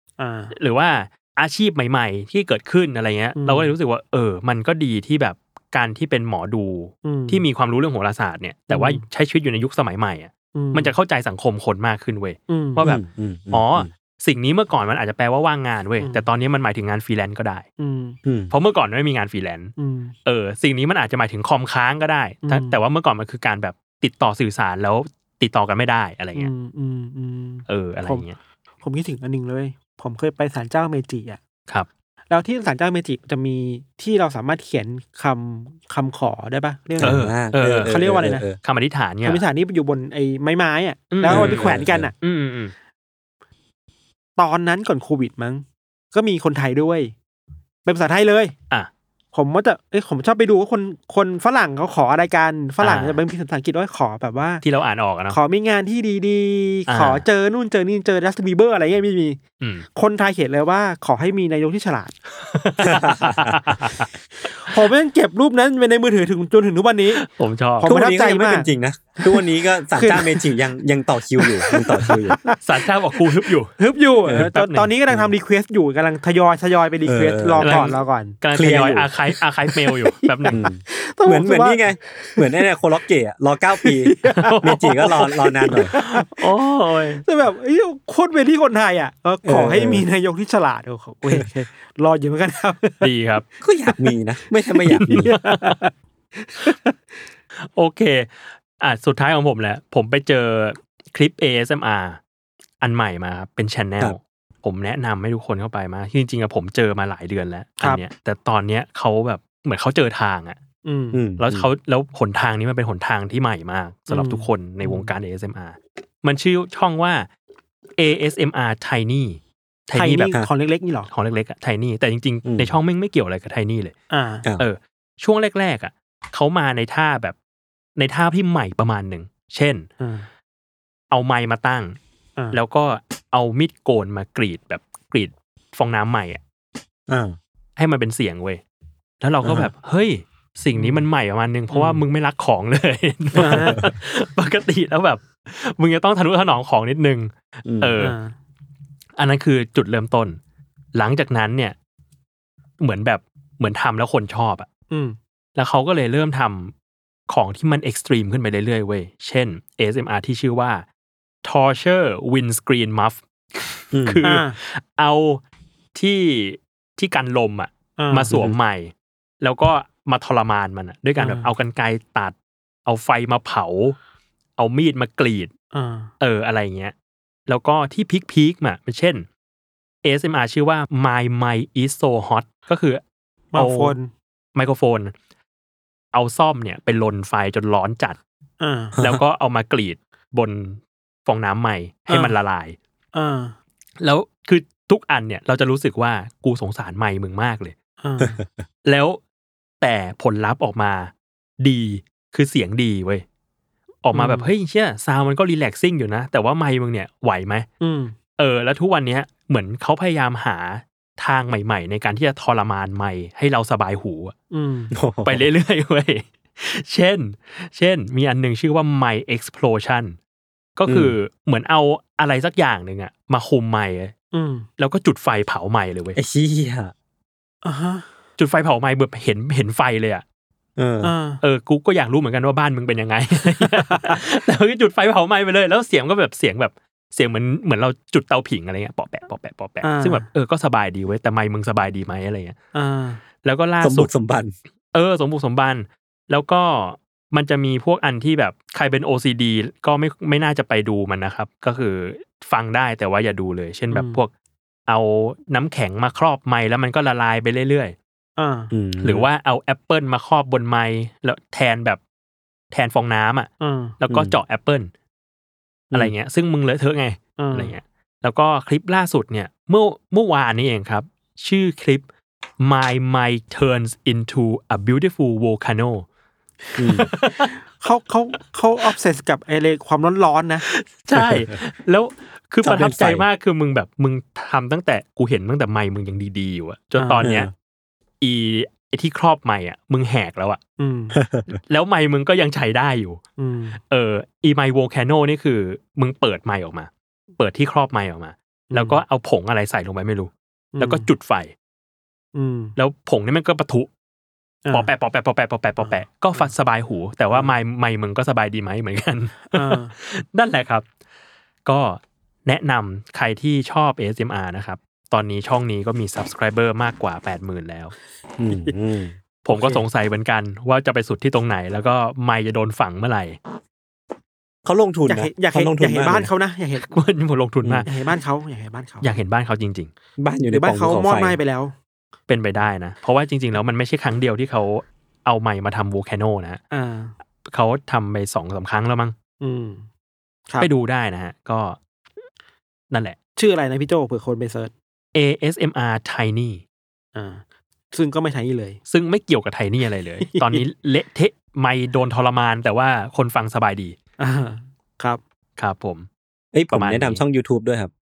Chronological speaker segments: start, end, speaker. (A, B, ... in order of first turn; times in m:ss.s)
0:00.2-0:00.5 A
0:00.5-0:17.7 B
0:03.4-0:03.7 A
0:07.0-0:07.4 A
0:08.7-0:09.0 A
0:10.5-0:10.9 A
0:12.5-0:12.8 A
0:12.8-0:13.9 C
0:17.8-0:18.2 A
0:18.2-0:18.5 C
0:18.5-0:19.7 B
0:19.8-0:20.1 A
0:20.2-0:26.5 B
0:22.4-0:22.8 A
0:26.4-0:28.2 A
0:27.7-0:28.4 B
0:28.8-0:31.4 A
0:32.3-0:37.2 A
0:37.0-0:38.6 C
0:37.0-0:37.9 B
0:37.8-0:38.4 A
0:38.6-0:39.4 B
0:39.2-0:42.1 A
0:41.1-0:42.7 B
0:41.2-0:42.1 C
0:44.4-0:47.1 A
0:47.8-0:48.5 A
0:49.3-0:54.6 A
0:52.8-0:53.2 B
0:54.6-0:55.4 B
0:55.3-0:59.4 A
0:56.9-0:57.2 B
0:59.6-0:59.8 B
0:59.9-1:02.1 A
1:02.5-1:04.1 B
1:02.8-1:03.6 C
1:04.5-1:07.2 A
1:07.1-1:07.9 B
1:07.8-1:08.7 A
1:07.8-1:12.4 C
1:09.9-1:10.4 A
1:11.4-1:12.6 A
1:12.6-1:13.7 B
1:13.8-1:18.4 A
1:14.3-1:14.9 B
1:17.0-1:17.9 C
1:17.6-1:20.6 B
1:18.5-1:19.1 C
1:19.7-1:22.6 A
1:20.5-1:25.9 C
1:23.8-1:26.5 A
1:24.3-1:25.1 B
1:25.9-1:27.2 B
1:27.2-1:33.1 A
1:29.4-1:30.0 C
1:33.0-1:33.4 B
1:33.6-1:35.3 C
1:34.9-1:35.8 B
1:35.0-1:36.9 A
1:37.6-1:42.2 B
1:42.8-1:50.6 B
1:50.8-1:51.2 A
1:51.1-1:51.6 C
1:51.4-1:57.3 B
1:54.1-1:55.1 A
1:58.0-2:00.4 B
1:59.9-2:01.1 A
2:01.1-2:03.9 B
2:02.4-2:02.7 C
2:04.1-2:04.4 A
2:04.6-2:07.4 B
2:08.0-2:09.9 B
2:10.0-2:10.3 A
2:11.1-2:12.0 B
2:12.5-2:16.4 B
2:17.1-2:17.4 C
2:17.8-2:18.6 B
2:19.2-2:28.2 B
2:19.4-2:19.7 C
2:20.7-2:21.1 A
2:21.7-2:22.0 A
2:23.3-2:23.8 A
2:23.4-2:23.9 C
2:27.6-2:28.0 C
2:28.0-2:28.3 A
2:29.2-2:30.4 B
2:30.9-2:31.7 B
2:32.8-2:34.7 B
2:34.9-2:35.2 A
2:35.6-2:36.7 B
2:37.3-2:40.8 B
2:41.4-2:45.4 B
2:43.9-2:44.2 C
2:44.2-2:44.6 A
2:45.9-2:52.3 B
2:48.0-2:48.3 A
2:48.3-2:48.6 C
2:51.2-2:51.5 A
2:52.8-2:54.0 B
2:54.6-2:55.5 B
2:55.7-2:56.1 A
2:56.2-2:56.9 B
2:57.5-2:59.2 B
3:00.0-3:03.0 B
3:03.5-3:04.1 A
3:03.5-3:03.9 B
3:04.5-3:05.1 B
3:06.1-3:08.2 B
3:08.6-3:09.0 A
3:09.0-3:09.2 C
3:09.0-3:12.8 B
3:12.1-3:12.3 A
3:13.1-3:13.6 A
3:14.0-3:17.7 B
3:18.0-3:18.4 A
3:18.2-3:18.6 C
3:18.8-3:19.2 B
3:19.8-3:23.2 B
3:24.0-3:27.7 B
3:24.1-3:24.5 A
3:27.8-3:28.2 A
3:28.4-3:34.3 B
3:34.5-3:34.9 A
3:34.9-3:35.5 C
3:35.2-3:40.2 B
3:40.8-3:44.1 B
3:40.9-3:41.1 C
3:44.3-3:44.6 A
3:44.8-3:46.2 B
3:46.2-3:46.9 C
3:47.6-3:48.0 A
3:48.4-3:50.2 B
3:50.8-3:51.1 C
3:51.0-3:51.4 A
3:51.4-4:02.6 B
3:53.8-3:54.2 A
3:59.8-4:00.2 A
4:02.7-4:03.2 A
4:03.4-4:04.1 B
4:03.8-4:04.5 C
4:04.9-4:14.3 B
4:13.9-4:14.2 A
4:14.9-4:17.9 B
4:18.4-4:18.7 A
4:18.7-4:19.3 C
4:19.0-4:22.0 B
4:22.7-4:23.5 B
4:23.6-4:23.9 A
4:24.0-4:24.9 B
4:24.1-4:24.3 C
4:25.9-4:32.0 B
4:27.4-4:27.8 A
4:32.6-4:36.0 B
4:36.8-4:37.5 B
4:36.8-4:37.1 C
4:37.3-4:40.6 A
4:40.6-4:47.5 B
4:41.1-4:41.5 C
4:42.6-4:43.2 C
4:47.0-4:47.3 A
4:47.2-4:47.5 C
4:48.2-4:50.6 B
4:50.8-4:51.2 A
4:51.1-4:51.5 C
4:51.7-4:53.2 B
4:53.4-4:53.8 A
4:53.9-5:01.5 B
4:58.7-4:59.0 A
5:00.7-5:01.1 A
5:02.3-5:02.8 A
5:02.8-5:03.9 B
5:04.6-5:04.9 A
5:04.7-5:10.8 B
5:05.8-5:06.5 A
5:09.5-5:09.9 A
5:11.6-5:17.9 B
5:18.4-5:19.2 C
5:18.5-5:18.7 A
5:19.4-5:23.4 B
5:19.5-5:19.8 A
5:24.6-5:26.3 C
5:25.1-5:26.8 A
5:26.8-5:27.9 B
5:27.9-5:29.2 A
5:29.0-5:29.9 B
5:30.2-5:31.4 C
5:30.5-5:31.7 A
5:32.3-5:36.6 B
5:36.7-5:37.1 A
5:37.5-5:39.1 B
5:39.4-5:39.8 A
5:40.6-5:41.8 B
5:42.9-5:43.2 B
5:43.4-5:44.7 A
5:45.1-5:46.6 B
5:47.1-5:48.8 A
5:48.9-5:54.0 B
5:50.2-5:50.6 A
5:54.2-5:55.2 A
5:55.6-5:56.1 B
5:56.5-5:57.9 C
5:56.7-5:57.2 B